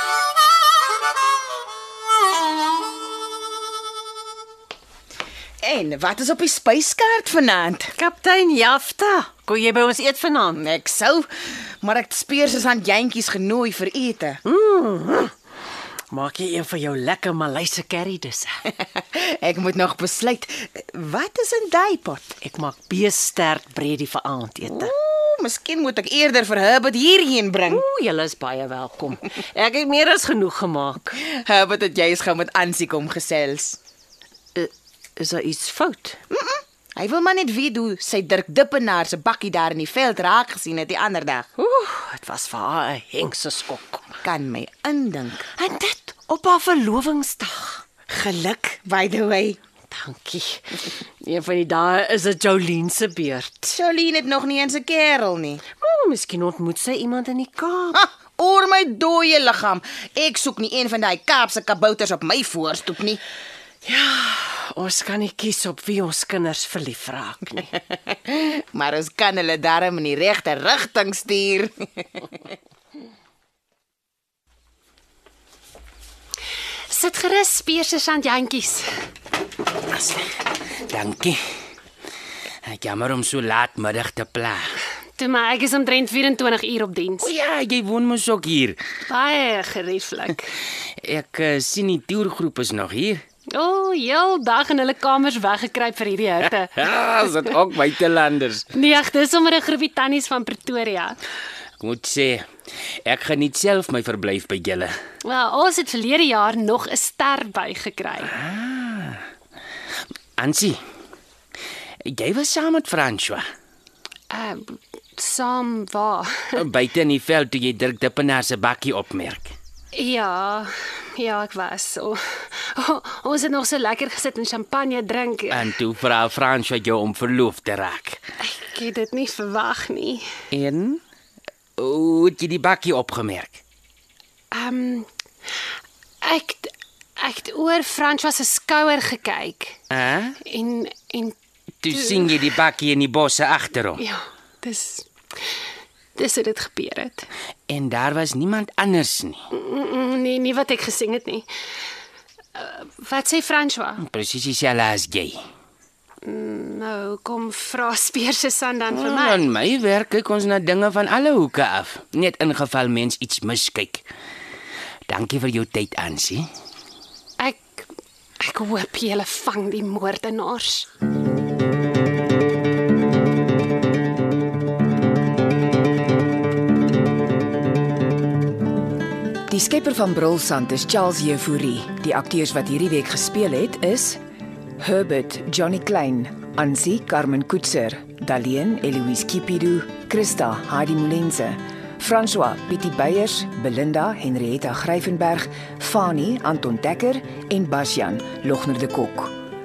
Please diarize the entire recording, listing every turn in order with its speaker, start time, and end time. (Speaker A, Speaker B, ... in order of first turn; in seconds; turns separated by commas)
Speaker A: 5.6-7.9, Speaker B: 8.0-10.6, Speaker A: 10.6-11.3, Speaker A: 11.8-14.4, Speaker B: 14.5-15.3, Speaker B: 16.1-18.5, Speaker A: 18.9-22.4, Speaker B: 22.4-24.9, Speaker A: 24.6-27.8, Speaker B: 27.7-31.0, Speaker A: 31.2-33.8, Speaker B: 34.5-36.1, Speaker A: 36.3-41.5, Speaker B: 41.6-44.0, Speaker A: 44.2-45.5, Speaker B: 45.6-47.8, Speaker A: 48.3-49.6, Speaker B: 49.9-50.6, Speaker B: 51.2-53.6, Speaker A: 53.7-55.6, Speaker B: 55.8-58.0, Speaker A: 57.9-63.2, Speaker B: 63.9-67.6, Speaker A: 68.3-72.3, Speaker C: 76.9-78.9, Speaker D: 80.0-80.4, Speaker D: 80.9-81.4, Speaker D: 82.6-84.6, Speaker C: 85.2-87.3, Speaker D: 87.2-88.8, Speaker C: 89.1-90.5, Speaker D: 91.0-93.2, Speaker C: 93.5-96.8, Speaker D: 96.8-98.7, Speaker C: 98.7-101.2, Speaker D: 101.8-102.4, Speaker D: 103.0-104.9, Speaker C: 105.2-108.3, Speaker D: 108.4-109.2, Speaker D: 110.4-110.8, Speaker D: 112.0-113.4, Speaker C: 114.3-116.6, Speaker D: 116.5-119.5, Speaker C: 119.9-125.7, Speaker D: 125.5-128.2, Speaker C: 128.4-130.3, Speaker D: 130.5-131.0, Speaker D: 131.8-133.6, Speaker C: 134.5-135.1, Speaker C: 136.2-139.8, Speaker D: 139.9-140.4, Speaker C: 140.4-141.4, Speaker D: 141.8-144.0, Speaker C: 141.9-142.3, Speaker C: 144.0-145.1, Speaker C: 146.2-147.3, Speaker D: 147.7-149.4, Speaker C: 149.5-151.4, Speaker C: 152.6-154.0, Speaker D: 154.0-155.4, Speaker C: 156.2-159.4, Speaker D: 158.9-164.0, Speaker D: 165.1-166.5, Speaker C: 167.4-167.8, Speaker C: 168.4-170.9, Speaker E: 179.5-184.2, Speaker E: 184.8-199.3